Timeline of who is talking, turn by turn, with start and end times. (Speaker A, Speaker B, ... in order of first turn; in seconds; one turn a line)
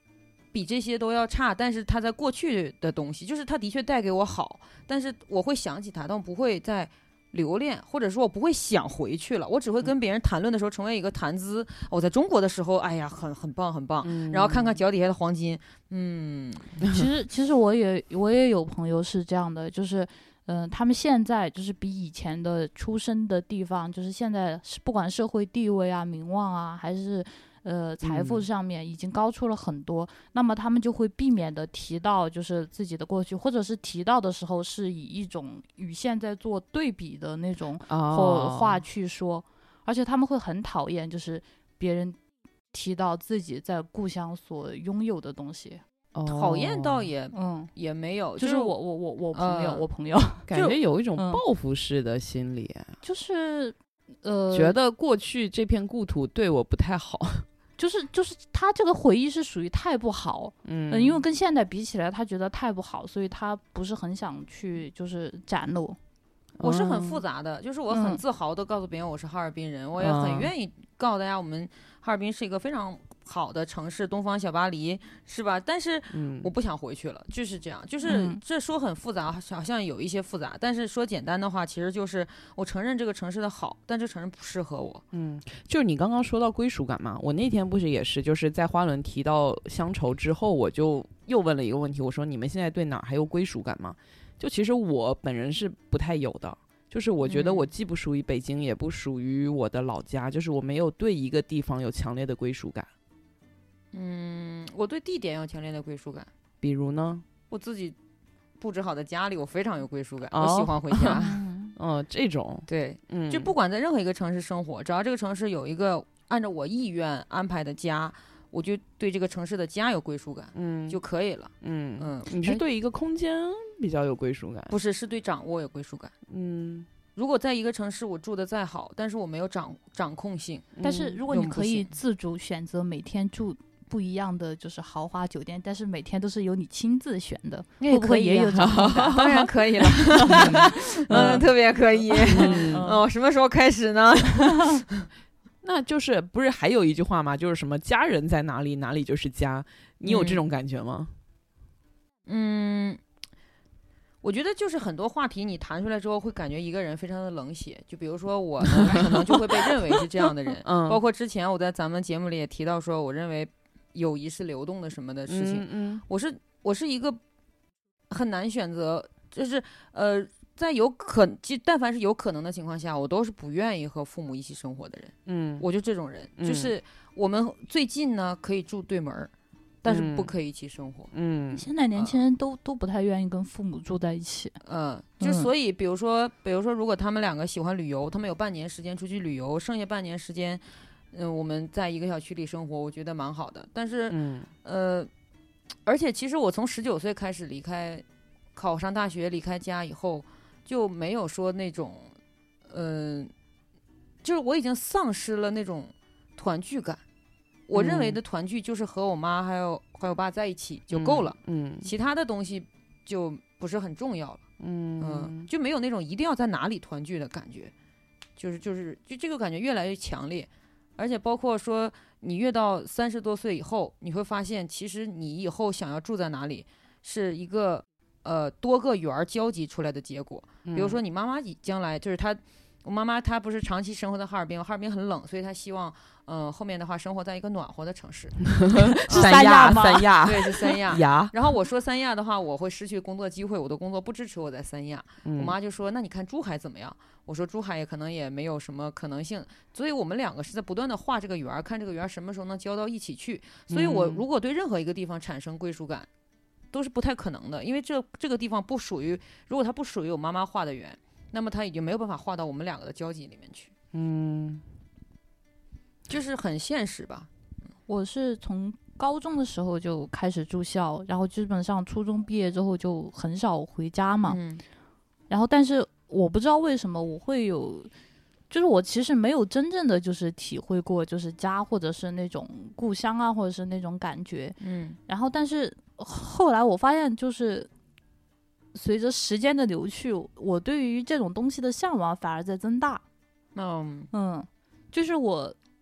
Speaker A: 0.5-16.8
Speaker B: 14.0-14.8
Speaker C: 16.9-42.2
Speaker B: 28.0-28.4
Speaker B: 37.9-38.8
Speaker C: 42.7-45.8
Speaker B: 46.1-47.1
Speaker A: 46.3-48.7
Speaker C: 47.3-47.7
Speaker C: 48.4-50.5
Speaker A: 49.3-49.9
Speaker B: 50.5-52.9
Speaker C: 51.2-51.4
Speaker C: 53.0-54.8
Speaker B: 54.5-57.5
Speaker C: 57.8-66.0
Speaker B: 60.6-61.2
Speaker B: 66.6-67.2
Speaker A: 66.6-85.0
Speaker C: 67.9-68.2
Speaker B: 70.0-70.5
Speaker B: 76.1-76.5
Speaker C: 78.0-78.4
Speaker B: 85.1-102.9
Speaker A: 97.2-97.7
Speaker A: 103.9-106.3
Speaker B: 106.6-107.2
Speaker A: 107.5-108.0
Speaker A: 108.6-111.4
Speaker B: 110.3-111.2
Speaker C: 111.1-111.7
Speaker B: 111.8-113.5
Speaker A: 112.7-122.3
Speaker B: 120.5-121.0
Speaker B: 121.6-124.8
Speaker A: 124.7-126.1
Speaker B: 126.3-126.9
Speaker A: 127.2-130.8
Speaker B: 130.8-131.2
Speaker C: 130.8-139.2
Speaker A: 131.3-131.9
Speaker A: 137.8-145.1
Speaker B: 138.6-141.5
Speaker C: 140.3-140.6
Speaker B: 142.2-142.9
Speaker C: 142.3-143.0
Speaker B: 145.6-151.1
Speaker A: 150.0-150.4
Speaker A: 152.3-153.0
Speaker A: 154.2-167.2
Speaker B: 158.8-159.2
Speaker B: 160.6-161.0
Speaker B: 165.3-166.0
Speaker A: 168.1-179.3
Speaker B: 175.3-175.7
Speaker B: 176.4-176.8
Speaker A: 179.8-181.1
Speaker B: 179.9-180.3
Speaker B: 181.1-181.7
Speaker C: 181.5-184.6
Speaker A: 184.6-195.1
Speaker C: 185.2-185.5
Speaker B: 194.1-194.5
Speaker A: 195.8-198.0
Speaker A: 198.6-202.1
Speaker A: 202.7-203.3
Speaker A: 204.2-207.0
Speaker A: 207.7-214.4
Speaker B: 207.7-208.2
Speaker B: 210.9-211.9
Speaker B: 214.6-215.5
Speaker A: 215.0-217.7
Speaker A: 218.4-256.1
Speaker B: 230.7-231.0
Speaker B: 238.6-241.3
Speaker C: 239.1-240.1
Speaker B: 245.2-245.6
Speaker B: 253.7-254.2
Speaker A: 256.7-263.7
Speaker B: 263.9-264.6
Speaker A: 266.1-267.3
Speaker C: 267.9-274.4
Speaker A: 274.3-274.6
Speaker C: 275.3-277.9
Speaker C: 278.5-284.6
Speaker A: 284.6-285.0
Speaker C: 285.1-287.7
Speaker C: 288.7-293.0
Speaker A: 293.6-294.1
Speaker C: 294.1-295.6